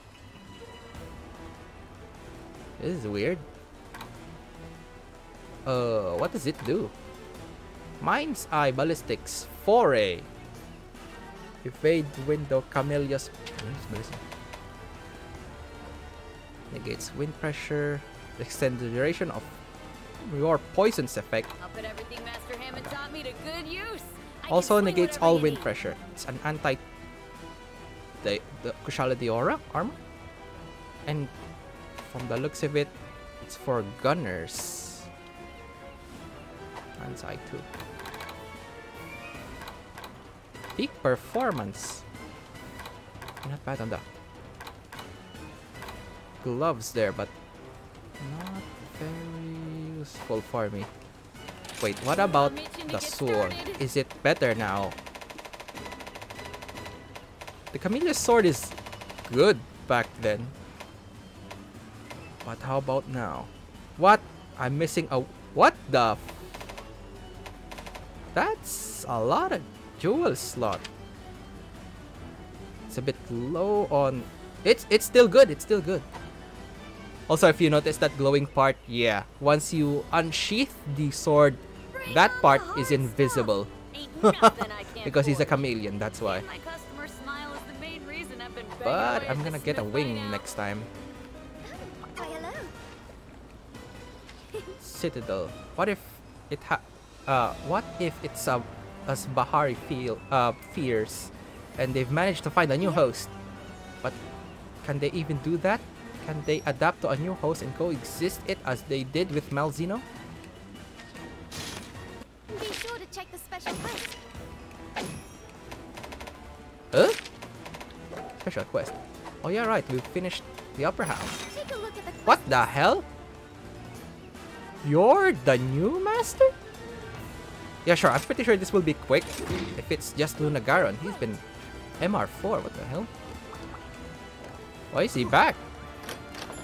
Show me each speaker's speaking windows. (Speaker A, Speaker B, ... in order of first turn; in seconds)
Speaker A: 2.8-3.4, 5.6-6.9, 8.0-10.3, 11.6-14.2, 16.7-19.6, 20.2-21.5, 24.5-26.8, 28.2-30.0, 31.1-31.3, 32.1-35.1, 37.0-37.6, 40.8-42.0, 43.4-44.0, 46.4-47.3, 48.2-50.9, 51.8-55.0, 57.7-58.7, 59.3-60.5, 62.4-66.2, 68.3-70.8, 72.9-76.0, 77.3-86.4, 88.8-90.9, 94.8-103.3, 104.8-110.0, 116.9-117.2, 118.4-121.4, 122.2-123.1, 124.8-126.5, 127.8-131.4, 132.0-133.1, 134.9-135.6
Speaker B: 21.6-25.7, 52.1-53.9, 81.9-85.6, 86.2-90.5
Speaker C: 82.2-82.8, 91.6-92.7, 112.5-114.2, 121.5-122.7